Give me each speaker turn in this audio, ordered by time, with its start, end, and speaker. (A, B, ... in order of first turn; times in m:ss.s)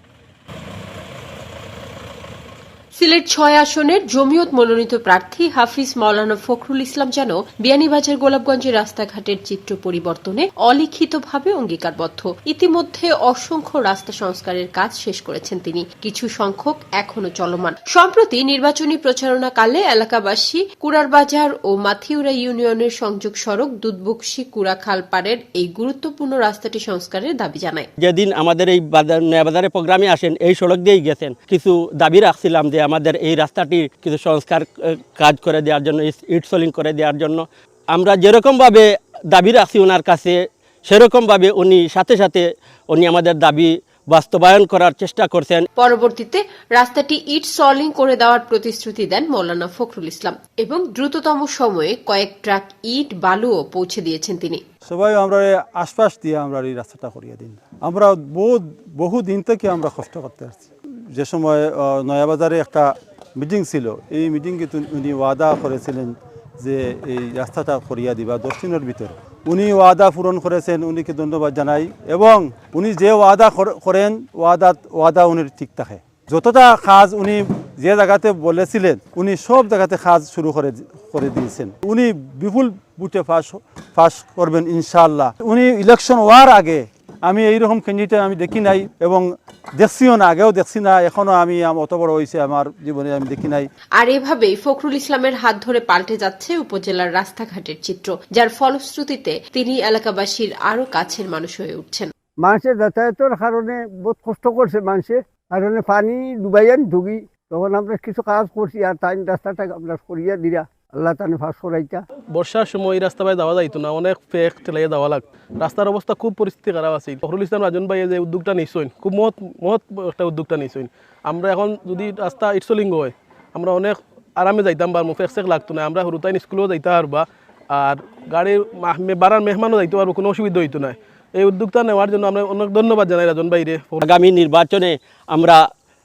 0:03.0-0:27.9 A
0:28.0-0:45.7 B
0:45.8-0:54.6 A
0:54.8-1:33.7 C
1:34.0-1:42.1 A
1:42.4-1:52.0 D
1:52.3-2:14.0 E
2:14.0-2:15.6 B